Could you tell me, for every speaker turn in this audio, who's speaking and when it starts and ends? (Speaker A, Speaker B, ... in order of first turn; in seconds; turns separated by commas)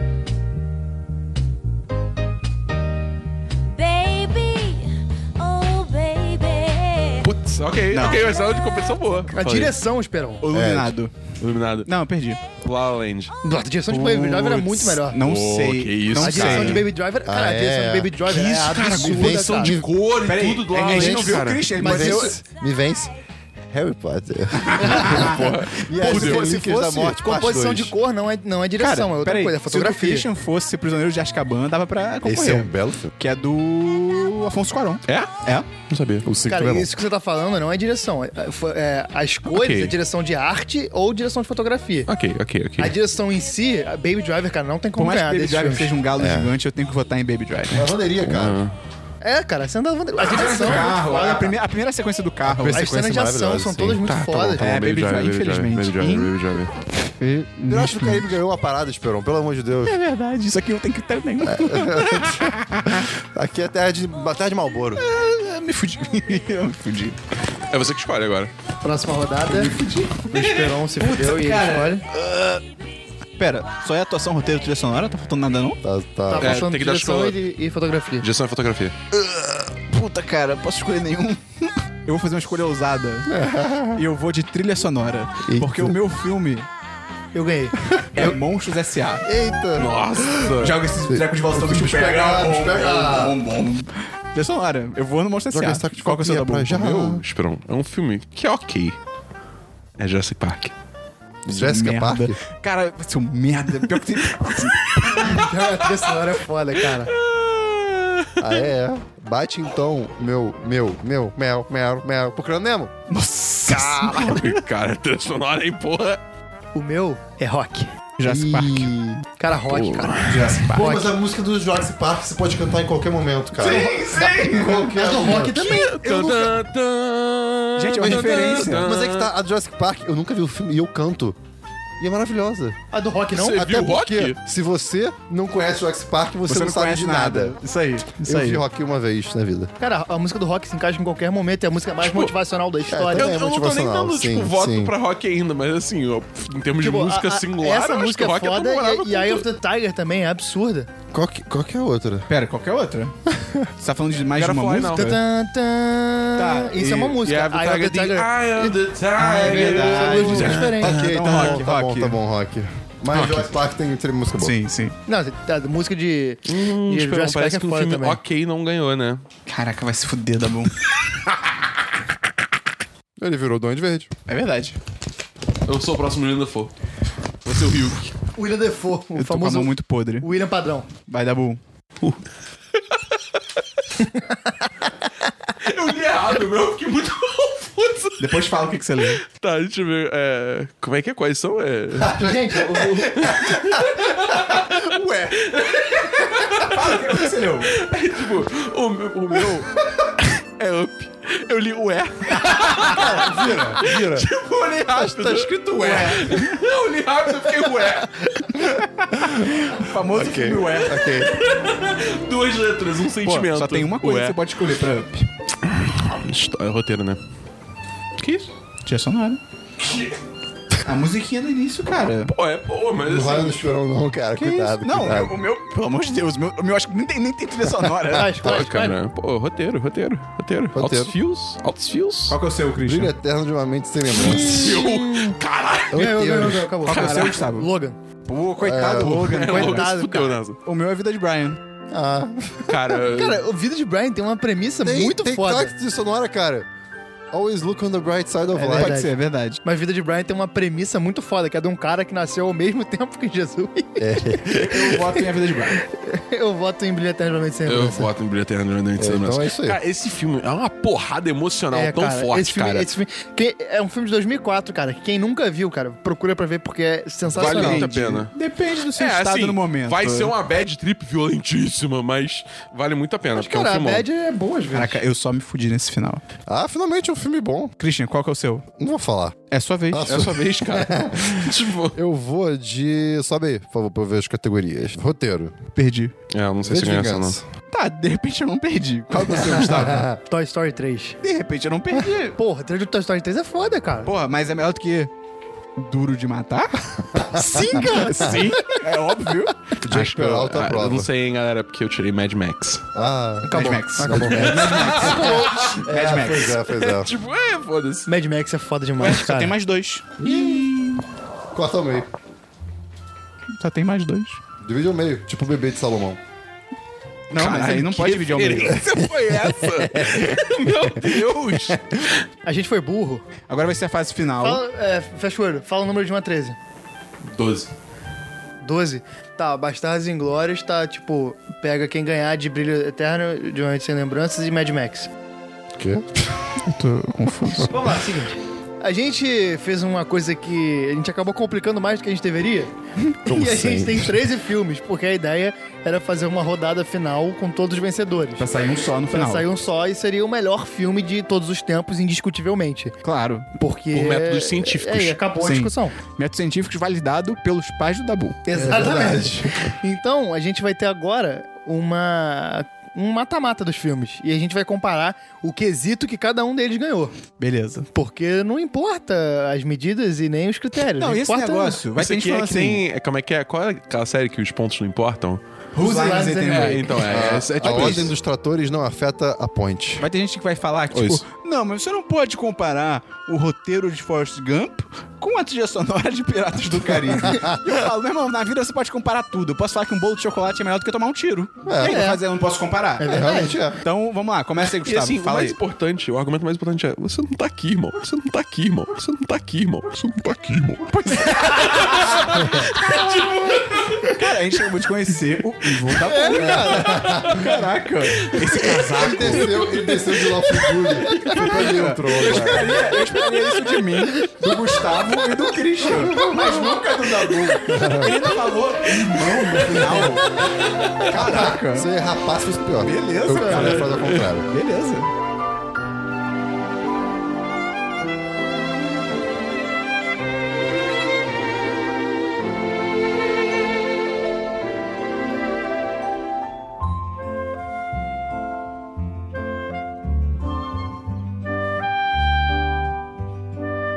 Speaker A: 3.7-7.3, Speaker B: 7.2-9.7, Speaker C: 7.9-8.3, Speaker A: 8.1-8.8, Speaker D: 9.3-10.4, Speaker C: 10.4-11.1, Speaker E: 10.5-10.9, Speaker B: 11.4-11.9, Speaker C: 11.8-12.4, Speaker B: 12.6-13.3, Speaker D: 13.4-15.2, Speaker C: 13.9-16.9, Speaker B: 15.2-16.9, Speaker D: 16.2-19.8, Speaker E: 17.2-18.1, Speaker B: 18.2-21.7, Speaker E: 18.9-19.9, Speaker C: 20.2-22.3, Speaker E: 20.9-23.1, Speaker D: 21.8-22.4, Speaker E: 23.7-27.9, Speaker C: 24.6-25.5, Speaker B: 25.1-26.5, Speaker C: 26.0-27.1, Speaker D: 26.3-30.3, Speaker C: 28.8-35.7, Speaker E: 32.2-33.1, Speaker B: 35.1-35.3, Speaker B: 35.9-36.6, Speaker E: 36.2-36.9, Speaker D: 36.5-42.1, Speaker B: 39.5-39.9, Speaker B: 42.1-42.9, Speaker D: 42.8-45.9, Speaker C: 45.0-47.9, Speaker E: 46.2-46.5, Speaker E: 47.7-48.6, Speaker B: 48.2-48.7, Speaker D: 49.2-51.6, Speaker C: 50.2-52.9, Speaker E: 52.4-54.5, Speaker D: 52.7-54.6, Speaker B: 54.1-56.7, Speaker C: 54.6-56.3, Speaker C: 57.0-58.3, Speaker E: 57.6-59.9, Speaker C: 59.8-63.1, Speaker E: 61.4-65.0, Speaker C: 65.0-67.2, Speaker B: 67.7-68.5, Speaker D: 68.8-69.8, Speaker C: 69.5-70.4, Speaker D: 70.3-72.0, Speaker C: 71.0-72.6, Speaker C: 73.4-75.8, Speaker E: 75.8-76.6, Speaker D: 76.3-78.2, Speaker B: 76.4-77.4, Speaker B: 78.2-78.9, Speaker E: 79.2-79.6, Speaker C: 79.9-83.3, Speaker E: 83.2-84.0, Speaker C: 83.9-86.7, Speaker E: 85.4-86.0, Speaker D: 87.3-88.3, Speaker C: 88.1-89.2, Speaker E: 89.2-90.2, Speaker B: 89.8-90.8, Speaker C: 90.6-96.9, Speaker E: 91.0-93.4, Speaker E: 95.5-97.2, Speaker B: 96.8-99.0, Speaker B: 100.0-100.7, Speaker E: 101.5-102.4, Speaker C: 101.5-105.4, Speaker B: 104.4-106.1, Speaker D: 105.2-107.1, Speaker B: 106.8-108.6, Speaker E: 108.4-112.9, Speaker C: 113.1-114.5, Speaker D: 113.7-114.4, Speaker B: 114.1-116.2, Speaker D: 116.7-117.9, Speaker C: 118.2-118.9, Speaker E: 118.2-119.2, Speaker D: 119.4-121.1, Speaker B: 119.7-120.6, Speaker C: 120.2-120.9, Speaker E: 120.8-126.5, Speaker C: 123.5-124.9, Speaker D: 123.6-124.1, Speaker D: 124.8-126.0, Speaker B: 125.4-129.3, Speaker C: 127.8-128.8, Speaker E: 128.0-131.4, Speaker E: 132.0-132.8, Speaker D: 132.9-133.7, Speaker B: 133.3-134.4, Speaker E: 133.4-137.6, Speaker C: 136.5-138.6, Speaker E: 138.2-139.7, Speaker D: 139.8-143.3, Speaker B: 142.0-142.3, Speaker E: 142.9-144.9, Speaker B: 143.1-149.4, Speaker D: 146.8-150.9, Speaker E: 151.1-152.3, Speaker C: 152.3-153.1, Speaker E: 153.3-153.7, Speaker C: 153.8-155.2, Speaker B: 154.3-155.1, Speaker D: 154.9-158.8, Speaker C: 156.3-157.2, Speaker B: 157.2-161.6, Speaker C: 159.2-162.2, Speaker D: 159.3-161.0, Speaker E: 160.5-164.6, Speaker C: 163.1-163.5, Speaker C: 164.4-164.9, Speaker D: 165.1-168.2, Speaker B: 166.4-169.2, Speaker C: 169.5-170.7, Speaker E: 173.2-174.1, Speaker C: 174.3-174.8, Speaker B: 175.7-176.7, Speaker B: 177.4-178.1, Speaker D: 178.3-180.9, Speaker C: 179.1-180.3, Speaker C: 181.1-181.6, Speaker B: 185.6-188.4, Speaker C: 188.2-189.2, Speaker B: 189.3-192.1, Speaker E: 192.0-192.6, Speaker D: 192.1-193.4, Speaker B: 193.1-208.5, Speaker C: 196.1-197.7, Speaker C: 202.3-203.0, Speaker E: 202.8-204.3, Speaker E: 204.9-206.2, Speaker C: 205.7-206.5, Speaker E: 208.5-211.3, Speaker C: 208.7-211.0, Speaker B: 211.0-214.4, Speaker C: 213.2-215.3, Speaker B: 215.6-217.2, Speaker B: 218.2-218.5, Speaker C: 218.8-219.4, Speaker B: 219.8-220.2, Speaker C: 220.8-222.3, Speaker B: 222.3-223.6, Speaker E: 223.0-225.4, Speaker C: 224.3-228.5, Speaker E: 227.8-228.6, Speaker D: 228.1-229.0, Speaker B: 228.4-232.3, Speaker E: 230.7-231.1, Speaker C: 232.3-233.1, Speaker E: 232.8-234.8, Speaker B: 234.1-236.3, Speaker D: 234.2-235.4, Speaker E: 235.9-236.7, Speaker D: 235.9-238.0, Speaker C: 236.8-237.7, Speaker B: 236.9-237.4, Speaker C: 238.2-239.9, Speaker E: 238.6-239.3, Speaker B: 239.0-240.6, Speaker D: 239.4-240.4, Speaker C: 240.7-241.6, Speaker E: 241.9-242.3, Speaker B: 242.7-243.5, Speaker D: 242.9-245.7, Speaker E: 244.8-246.7, Speaker E: 247.3-249.0, Speaker D: 248.5-255.2, Speaker C: 248.7-249.6, Speaker E: 254.0-255.0, Speaker C: 254.5-255.8, Speaker D: 255.7-258.1, Speaker B: 257.6-262.9, Speaker E: 259.0-259.8, Speaker D: 261.7-268.1, Speaker B: 267.3-268.3, Speaker C: 267.3-270.3, Speaker B: 268.9-274.1, Speaker D: 273.4-275.0, Speaker C: 274.7-276.2, Speaker E: 276.5-277.7, Speaker C: 277.8-278.6, Speaker E: 278.8-279.4, Speaker C: 279.5-280.3, Speaker E: 279.9-285.6, Speaker B: 280.1-282.0, Speaker C: 285.7-286.1, Speaker B: 286.3-287.4, Speaker E: 286.6-287.4, Speaker C: 287.7-290.1, Speaker E: 289.3-290.2, Speaker D: 290.3-291.2, Speaker C: 291.2-292.4, Speaker D: 292.4-294.1, Speaker C: 294.0-295.1, Speaker C: 295.8-300.1, Speaker E: 297.1-298.3, Speaker D: 297.6-298.8, Speaker E: 299.8-301.1, Speaker B: 299.9-302.9, Speaker E: 302.9-307.1, Speaker D: 303.5-305.5, Speaker C: 303.5-306.6, Speaker B: 304.5-305.8, Speaker B: 306.5-308.1, Speaker D: 308.1-309.5, Speaker C: 309.0-311.0, Speaker E: 310.2-310.7, Speaker E: 311.5-312.1, Speaker C: 313.6-314.4, Speaker E: 314.6-316.2, Speaker C: 317.3-318.8, Speaker B: 317.3-322.2, Speaker E: 319.8-320.7, Speaker D: 322.4-323.2, Speaker C: 323.5-324.6, Speaker D: 324.4-326.6, Speaker B: 327.3-327.7, Speaker D: 328.6-335.1, Speaker E: 335.7-336.3, Speaker C: 336.6-337.7, Speaker E: 337.6-337.9, Speaker D: 337.6-342.7, Speaker D: 343.2-348.4, Speaker E: 343.2-344.1, Speaker C: 348.4-349.4, Speaker D: 349.1-352.9, Speaker C: 353.0-353.5, Speaker D: 353.6-355.9, Speaker B: 353.9-355.2, Speaker C: 355.4-358.5, Speaker D: 358.5-367.1, Speaker E: 358.5-359.7, Speaker C: 367.4-367.9, Speaker D: 367.9-371.8, Speaker C: 371.0-372.8, Speaker B: 371.9-375.4, Speaker C: 375.7-377.0, Speaker D: 375.8-377.1, Speaker B: 376.5-378.1, Speaker E: 377.1-380.0, Speaker C: 377.6-378.0, Speaker C: 380.0-393.2, Speaker B: 380.9-381.2, Speaker E: 391.6-392.1, Speaker D: 391.8-392.2, Speaker D: 393.0-393.6, Speaker E: 393.0-393.8, Speaker C: 393.8-395.6, Speaker B: 394.8-404.3, Speaker C: 400.8-402.9, Speaker E: 402.4-402.7, Speaker C: 403.9-409.6, Speaker D: 406.0-406.8, Speaker E: 406.4-407.4, Speaker B: 406.8-407.5, Speaker B: 408.2-408.7, Speaker E: 408.8-412.7, Speaker B: 409.4-411.5, Speaker C: 411.4-420.3, Speaker E: 415.9-416.4, Speaker D: 416.1-416.8, Speaker E: 417.6-418.2, Speaker B: 418.9-419.7, Speaker E: 419.3-420.2, Speaker B: 420.8-421.1, Speaker C: 421.0-421.9, Speaker E: 421.1-424.5, Speaker C: 422.8-425.1, Speaker B: 423.6-424.2